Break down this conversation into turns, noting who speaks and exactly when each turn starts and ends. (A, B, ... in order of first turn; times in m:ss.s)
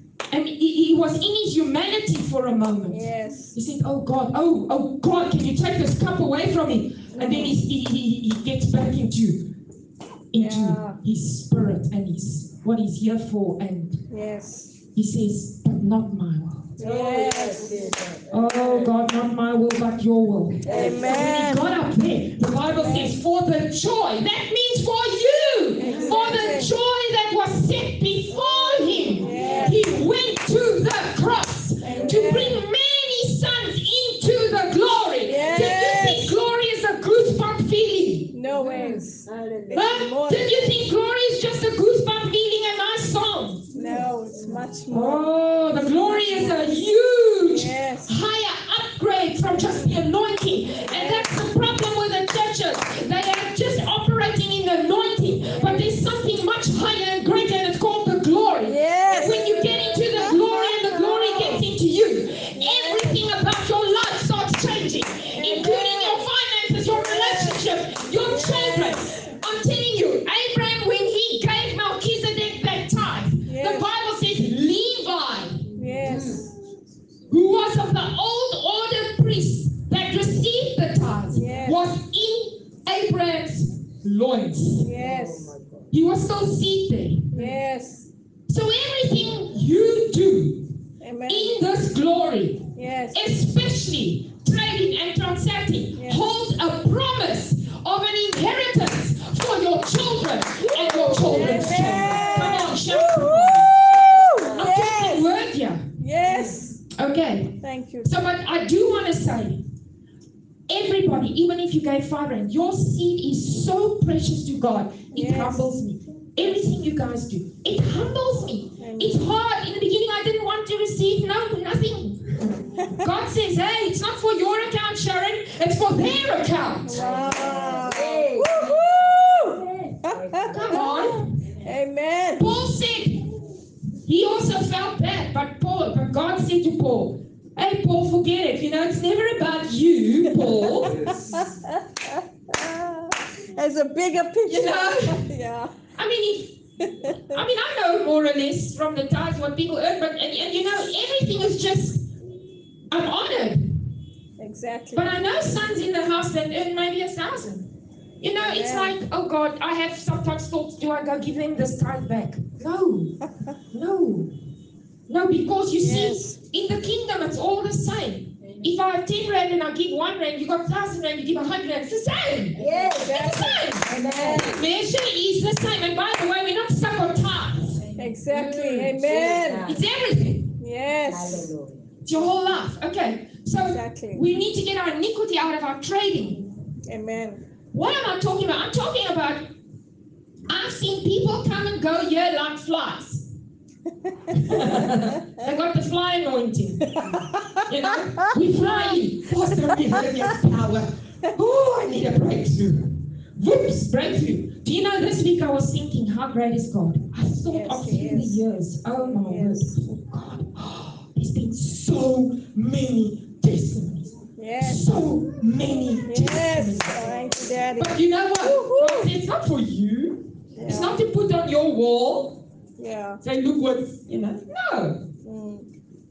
0:00.3-0:09.5 A
0:02.9-0:03.6 B
0:07.1-0:07.6 B
0:10.3-0:14.0 A
0:10.3-0:11.0 B
0:14.1-0:14.8 B
0:14.9-0:16.7 A
0:16.8-0:17.8 B
0:16.8-0:19.0 C
0:18.3-0:38.3 A
0:20.6-0:21.3 C
0:20.7-0:21.7 B
0:22.7-0:23.2 B
0:25.8-0:26.7 B
0:25.8-0:26.4 C
0:28.8-0:29.8 C
0:29.1-0:29.8 B
0:31.8-0:32.6 B
0:31.9-0:32.3 C
0:35.2-0:36.4 B
0:38.3-0:40.9 B
0:38.5-0:40.0 C
0:39.7-0:43.6 A
0:43.7-0:44.6 C
0:43.7-0:46.8 B
0:44.9-1:15.6 A
0:47.4-0:48.2 B
0:49.5-0:49.9 B
0:50.8-0:51.4 B
0:55.4-0:56.0 B
0:58.6-1:01.7 B
1:02.5-1:03.2 B
1:05.3-1:06.3 B
1:06.8-1:09.4 B
1:13.4-1:13.9 B
1:15.7-1:16.5 B
1:15.9-1:16.5 C
1:17.3-1:24.9 A
1:21.3-1:21.8 B
1:24.8-1:25.5 B
1:24.9-1:25.9 C
1:25.9-1:27.3 A
1:27.3-1:28.1 B
1:28.5-1:30.7 A
1:31.0-1:31.6 B
1:31.3-1:43.8 A
1:32.7-1:33.2 B
1:35.9-1:36.2 B
1:40.7-1:45.3 B
1:41.0-1:42.7 C
1:43.4-1:44.8 C
1:44.5-1:45.8 A
1:46.0-1:46.8 B
1:46.2-1:46.6 C
1:46.9-1:49.6 A
1:47.6-1:48.2 B
1:50.7-2:07.0 A
1:55.1-1:55.7 B
1:58.8-1:59.3 B
2:06.8-2:12.5 B
2:06.9-2:10.9 C
2:10.5-2:11.3 A
2:12.3-2:13.2 A
2:14.0-2:21.2 A
2:20.4-2:25.7 B
2:24.5-2:25.2 A
2:26.0-2:32.1 A
2:27.0-2:27.4 B
2:32.9-2:33.6 A
2:34.4-2:35.2 B
2:34.9-2:37.7 A
2:38.2-2:43.2 A
2:38.4-2:39.0 B
2:43.7-2:44.3 A
2:45.1-2:57.8 A
2:45.8-2:46.4 B
2:48.4-2:48.7 C
2:52.5-2:54.6 C
2:52.6-2:54.6 B
2:58.0-2:59.7 B
2:58.3-2:59.8 C
2:59.6-3:00.5 A
3:00.6-3:01.5 B
3:01.1-3:01.9 C
3:02.0-3:06.5 A
3:03.6-3:04.2 B
3:06.8-3:07.4 B
3:07.7-3:09.5 A
3:10.5-3:13.2 A
3:14.3-3:16.9 A
3:14.4-3:15.1 B
3:16.9-3:19.0 B
3:17.6-3:37.1 A
3:27.4-3:28.4 B
3:28.9-3:29.9 B
3:34.4-3:35.0 B
3:36.0-3:39.1 B
3:37.8-3:42.4 A
3:40.5-3:41.0 B
3:42.8-3:43.2 B
3:43.2-3:45.0 A
3:45.2-3:45.7 B